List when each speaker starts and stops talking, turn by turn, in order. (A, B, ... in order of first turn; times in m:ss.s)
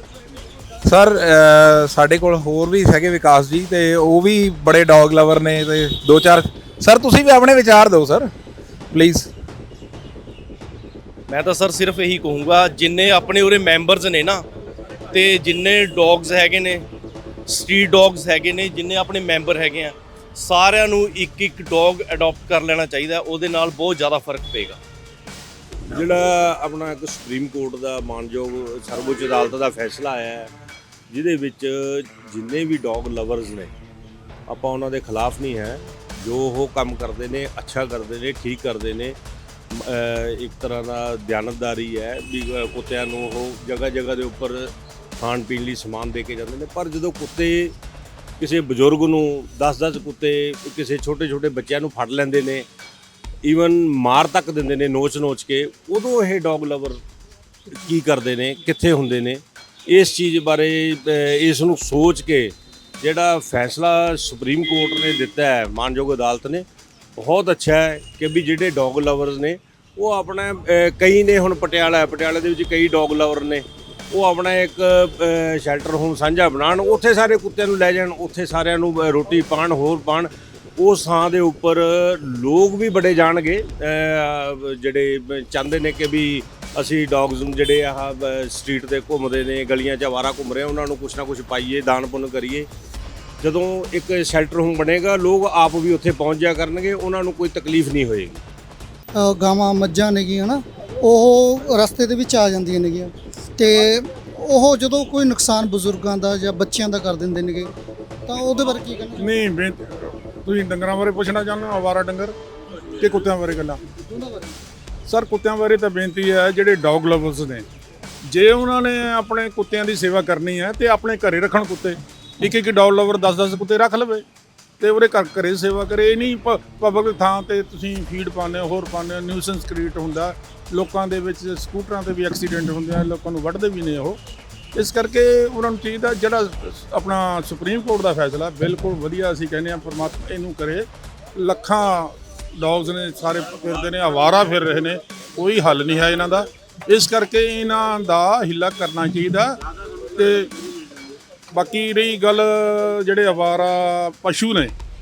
0:00.8-0:08.3 A
0:08.9-0:09.3 A
0:11.3-0:14.4 B
0:15.1-0:16.8 B
0:17.5-0:24.8 B
0:25.9-0:30.5 C
0:31.1-0:33.7 C
0:34.5-0:39.2 C
0:39.7-0:47.7 C
0:48.4-0:52.6 C
0:53.4-0:57.0 C
0:57.7-1:06.6 C
1:07.2-1:32.7 C
1:33.4-1:38.4 C
1:39.2-1:47.7 D
1:48.2-1:49.3 D
1:49.2-1:52.3 E
1:53.0-1:53.8 E
1:54.0-1:54.5 D
1:55.1-1:57.7 E
1:58.3-2:04.2 E
2:04.8-2:14.2 E
2:14.7-2:29.6 E
2:30.1-2:30.5 E
2:31.5-2:34.7 E